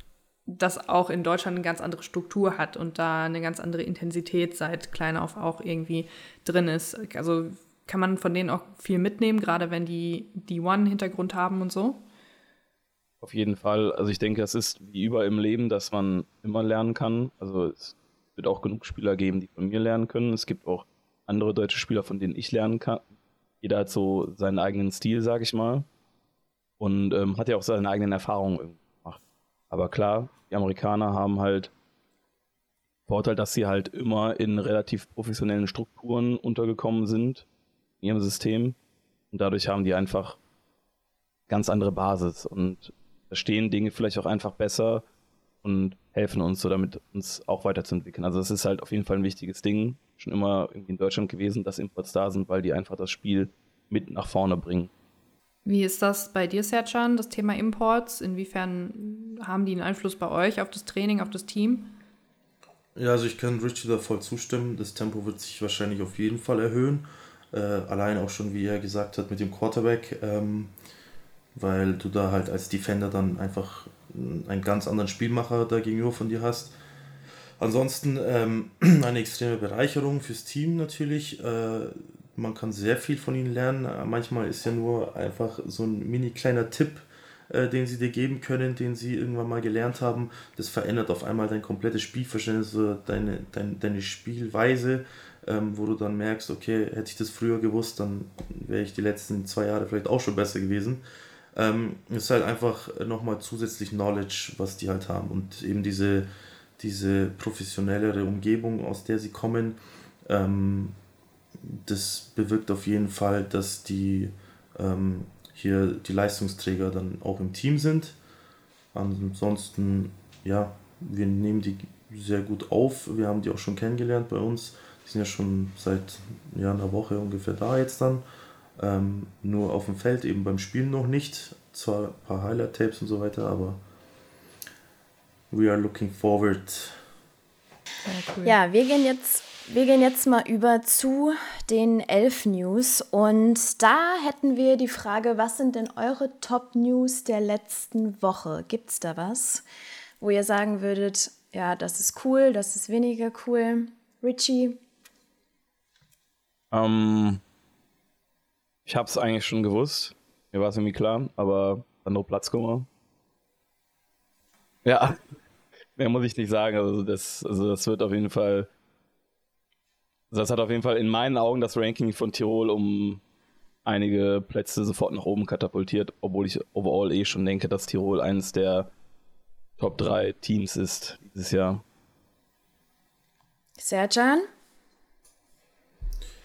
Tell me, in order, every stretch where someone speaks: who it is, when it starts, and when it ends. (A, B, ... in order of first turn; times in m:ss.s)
0:00.5-0:12.0 A
0:13.2-0:23.0 B
0:23.6-0:25.9 B
0:26.8-0:31.7 B
0:33.1-0:37.4 B
0:38.0-0:38.8 B
0:39.3-0:40.4 B
0:41.5-0:45.0 B
0:45.6-0:54.9 B
0:55.6-1:01.9 A
1:03.0-1:10.7 C
1:11.5-1:16.7 C
1:17.6-1:41.0 C
1:41.5-1:51.0 C
1:51.6-1:58.2 C
1:58.9-2:08.2 C
2:08.8-2:13.8 C
2:15.5-2:17.0 C
2:18.0-2:18.6 A
2:18.4-2:29.6 D
2:30.2-2:34.8 D
2:36.7-2:37.4 B
2:38.8-2:42.9 B
2:44.8-2:45.2 B
2:46.0-2:48.7 B
2:50.3-2:53.2 B
2:53.8-2:58.9 B
2:59.8-3:01.8 B
3:03.8-3:04.5 D